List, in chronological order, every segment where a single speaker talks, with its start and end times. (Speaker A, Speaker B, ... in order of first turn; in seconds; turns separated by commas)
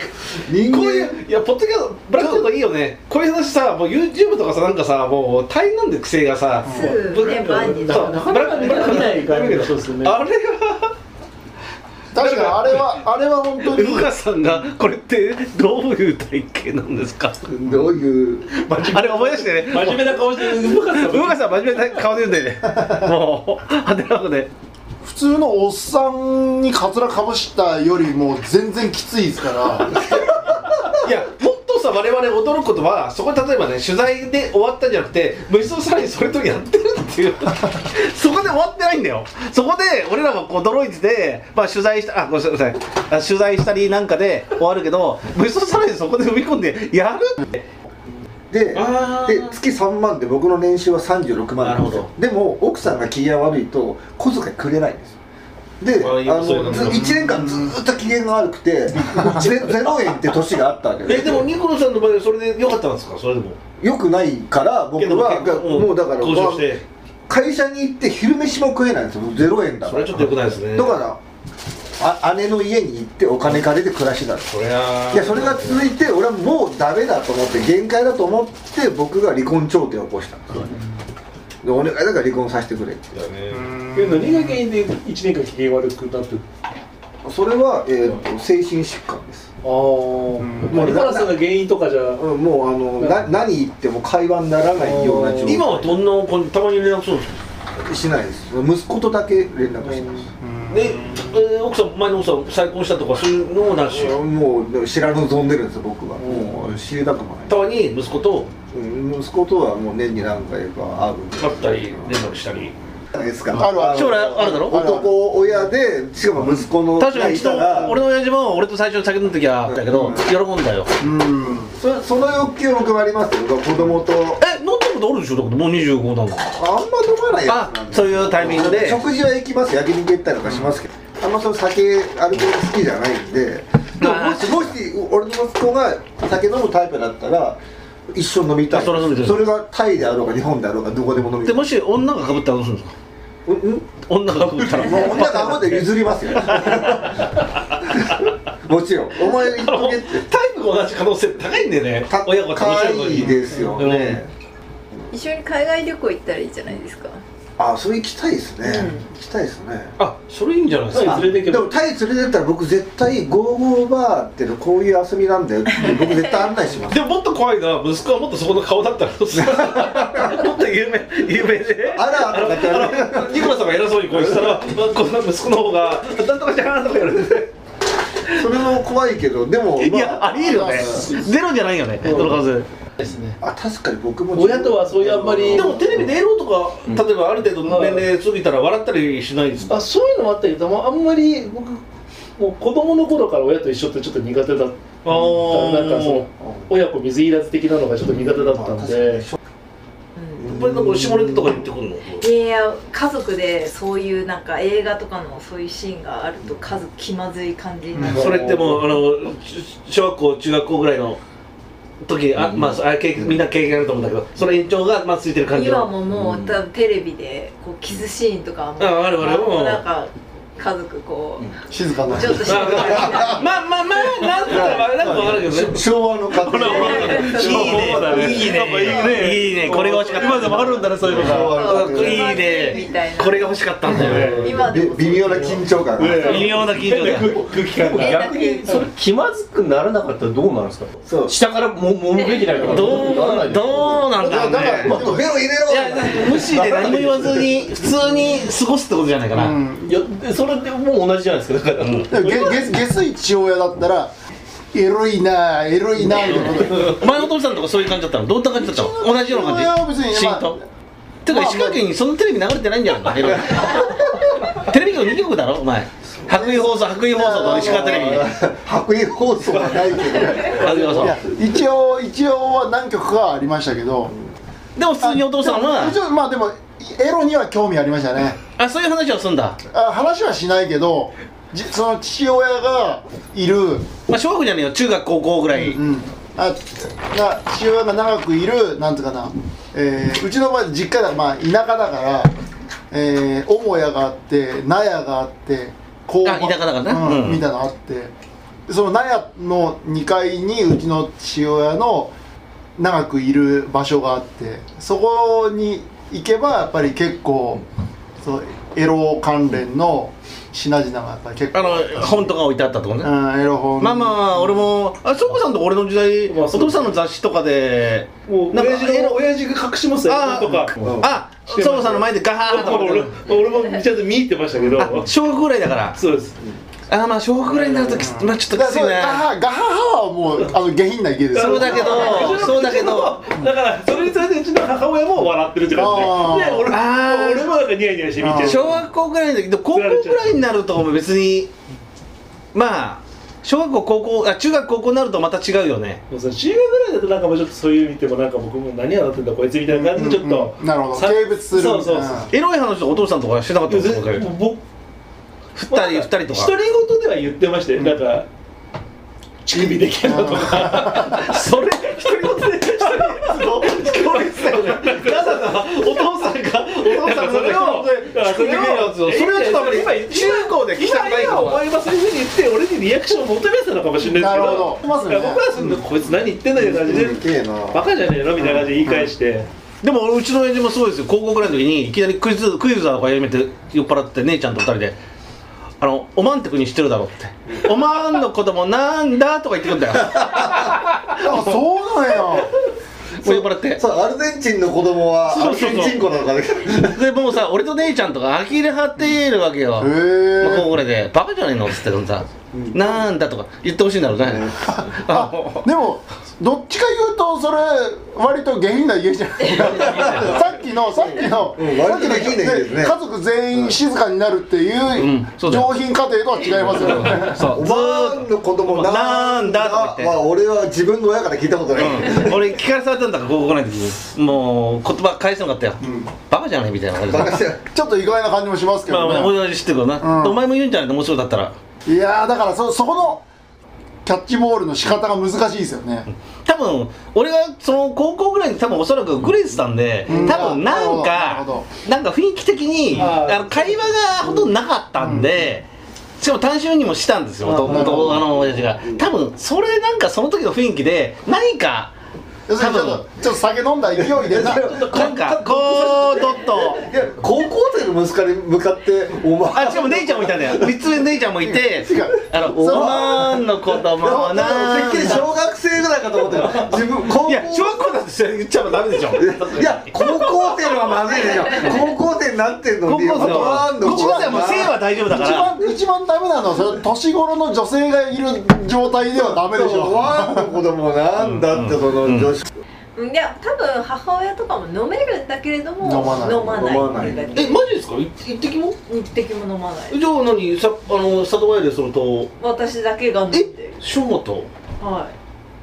Speaker A: 0.4-1.1, Speaker B: 0.6-10.9, Speaker C: 6.6-7.0, Speaker D: 6.7-8.6, Speaker E: 7.1-10.2, Speaker C: 12.1-14.1, Speaker B: 12.2-12.9, Speaker B: 13.6-17.4, Speaker A: 17.4-18.5, Speaker E: 18.6-21.4, Speaker B: 18.7-24.5, Speaker C: 25.0-30.0, Speaker B: 30.9-47.6, Speaker A: 48.5-55.1, Speaker B: 48.7-49.5, Speaker B: 51.6-52.1, Speaker A: 55.8-61.5, Speaker B: 56.0-57.4, Speaker C: 56.8-57.7, Speaker C: 59.2-59.4, Speaker B: 61.0-63.6, Speaker A: 63.8-66.7, Speaker B: 65.0-66.8, Speaker A: 67.3-71.2, Speaker B: 69.8-71.0, Speaker A: 72.0-74.5, Speaker B: 74.5-75.9, Speaker A: 75.1-80.6, Speaker A: 81.6-83.1, Speaker B: 83.1-83.7, Speaker C: 83.5-84.6, Speaker E: 83.9-86.4, Speaker A: 87.2-89.5, Speaker E: 89.6-92.2, Speaker C: 90.4-91.0, Speaker A: 90.7-91.4, Speaker A: 92.2-95.9, Speaker E: 93.0-93.3, Speaker E: 94.8-95.6, Speaker B: 95.4-97.3, Speaker A: 97.8-100.3, Speaker E: 99.8-100.2, Speaker C: 100.4-101.4, Speaker B: 100.7-104.2, Speaker A: 103.9-107.6, Speaker E: 106.2-106.5, Speaker B: 107.5-108.5, Speaker A: 108.7-112.0, Speaker B: 111.4-112.7, Speaker A: 113.1-118.0, Speaker C: 113.5-115.2, Speaker B: 113.6-114.9, Speaker B: 116.5-120.9, Speaker A: 119.7-120.2, Speaker C: 121.0-121.7, Speaker A: 121.6-124.4, Speaker B: 124.4-126.5, Speaker A: 126.5-137.6, Speaker B: 127.5-129.0, Speaker B: 134.0-134.7, Speaker A: 138.1-141.6, Speaker B: 138.7-139.5, Speaker B: 141.4-142.9, Speaker A: 143.4-143.9, Speaker B: 144.0-147.2, Speaker A: 144.6-150.2, Speaker C: 144.8-145.5, Speaker B: 149.3-154.2, Speaker A: 152.1-154.3, Speaker D: 155.1-157.2, Speaker A: 157.6-159.9, Speaker D: 158.6-159.1, Speaker B: 160.0-161.2, Speaker E: 160.9-161.8, Speaker A: 161.0-167.0, Speaker D: 165.8-166.3, Speaker B: 166.9-177.5, Speaker A: 169.3-170.4, Speaker A: 171.8-173.5, Speaker A: 178.3-181.1, Speaker B: 179.8-182.7, Speaker C: 180.4-181.0, Speaker E: 182.0-182.4, Speaker E: 183.0-183.3, Speaker A: 183.4-186.1, Speaker E: 184.3-185.8, Speaker B: 185.5-189.7, Speaker E: 187.6-188.0, Speaker E: 189.7-191.8, Speaker E: 192.4-199.2, Speaker B: 195.0-196.2, Speaker A: 198.1-199.4, Speaker A: 200.4-201.3, Speaker B: 200.4-202.3, Speaker D: 202.2-208.4, Speaker E: 208.0-208.8, Speaker B: 208.0-211.2, Speaker A: 208.2-208.7, Speaker B: 212.0-215.9, Speaker F: 212.4-212.8, Speaker D: 215.5-221.6, Speaker F: 216.1-216.6, Speaker B: 218.8-219.8, Speaker C: 221.7-222.7, Speaker D: 222.1-223.5, Speaker B: 222.4-225.8, Speaker E: 222.5-223.0, Speaker A: 222.6-223.4, Speaker A: 224.4-228.1, Speaker E: 226.4-231.6, Speaker B: 226.5-234.5, Speaker D: 226.5-229.3, Speaker D: 230.1-235.7, Speaker A: 231.0-232.5, Speaker E: 233.9-234.5, Speaker A: 233.9-236.6, Speaker E: 235.3-238.3, Speaker B: 236.2-237.4, Speaker F: 237.5-244.1, Speaker D: 237.9-238.9, Speaker A: 241.1-241.3, Speaker D: 242.1-242.7, Speaker B: 242.6-245.0, Speaker C: 244.2-245.5, Speaker A: 244.5-247.1, Speaker B: 245.6-249.6, Speaker C: 249.3-250.0, Speaker F: 249.8-252.6, Speaker B: 251.8-252.1, Speaker C: 252.1-254.1, Speaker C: 254.7-257.1, Speaker B: 256.2-260.6, Speaker C: 258.5-260.6, Speaker B: 261.2-268.3, Speaker C: 261.2-261.8, Speaker C: 266.3-268.1, Speaker A: 267.2-270.8, Speaker B: 270.3-271.2, Speaker E: 270.6-271.0, Speaker C: 270.6-274.1, Speaker B: 274.8-275.9, Speaker C: 275.0-278.4, Speaker B: 278.6-279.6, Speaker C: 279.7-283.9, Speaker B: 284.1-285.8, Speaker C: 285.5-292.3, Speaker C: 292.9-298.1, Speaker B: 296.2-297.4, Speaker C: 298.7-302.1, Speaker C: 302.8-307.6, Speaker C: 308.2-312.3, Speaker B: 311.5-313.1, Speaker C: 313.0-314.5, Speaker B: 313.8-319.2, Speaker E: 316.3-317.0, Speaker E: 318.2-325.1, Speaker B: 320.1-323.1, Speaker A: 320.8-321.1, Speaker B: 324.8-326.0, Speaker E: 325.9-326.4, Speaker B: 326.9-329.2, Speaker E: 327.5-328.0, Speaker C: 327.9-332.4, Speaker B: 331.3-333.2, Speaker E: 331.3-338.8, Speaker C: 335.7-336.7, Speaker B: 336.7-337.6, Speaker C: 338.2-338.7, Speaker B: 338.4-341.5, Speaker E: 339.7-340.3, Speaker B: 342.5-346.0, Speaker E: 346.1-352.3, Speaker C: 349.7-352.3, Speaker B: 352.3-354.3, Speaker E: 353.7-354.6, Speaker B: 355.5-356.5, Speaker E: 355.7-358.3, Speaker E: 359.4-365.9, Speaker C: 360.0-361.2, Speaker B: 360.9-371.6, Speaker E: 366.8-379.5, Speaker C: 374.0-375.8, Speaker A: 376.6-377.8, Speaker B: 379.8-385.0, Speaker B: 385.8-391.2, Speaker A: 390.2-390.5, Speaker C: 391.2-392.5, Speaker B: 393.2-393.8, Speaker A: 393.2-397.0, Speaker B: 395.3-396.0, Speaker B: 396.7-405.6, Speaker C: 399.8-400.7, Speaker A: 402.5-403.0, Speaker A: 404.2-404.8, Speaker C: 404.7-417.6, Speaker A: 409.8-410.3, Speaker B: 409.8-410.2, Speaker A: 411.5-412.9, Speaker B: 414.9-415.7, Speaker B: 416.5-420.1, Speaker A: 417.5-422.4, Speaker B: 421.7-427.4, Speaker C: 425.8-426.1, Speaker A: 427.1-427.6, Speaker C: 427.7-429.4, Speaker B: 428.9-431.5, Speaker C: 430.0-430.4, Speaker C: 431.9-433.2, Speaker C: 434.0-436.1, Speaker B: 436.4-445.6, Speaker C: 440.1-441.7, Speaker E: 442.9-443.8, Speaker C: 445.0-445.4, Speaker B: 446.2-451.9, Speaker A: 447.4-449.0, Speaker C: 447.6-448.2, Speaker C: 452.5-454.9, Speaker B: 452.6-453.0, Speaker A: 454.0-455.1, Speaker B: 454.7-456.9, Speaker E: 454.8-456.6, Speaker A: 456.6-460.8, Speaker B: 459.5-465.3, Speaker C: 461.5-463.1, Speaker A: 462.5-463.4, Speaker A: 464.0-467.9, Speaker B: 467.1-471.9, Speaker A: 469.1-474.8, Speaker D: 471.4-471.8, Speaker B: 472.8-475.5, Speaker C: 473.2-480.6, Speaker A: 479.3-482.5, Speaker B: 481.2-482.3, Speaker D: 482.9-487.6, Speaker C: 485.8-486.6, Speaker A: 486.2-487.5, Speaker B: 487.3-488.8, Speaker D: 488.9-490.0, Speaker B: 489.9-492.3, Speaker D: 492.4-493.8, Speaker B: 493.3-494.5, Speaker D: 494.8-495.1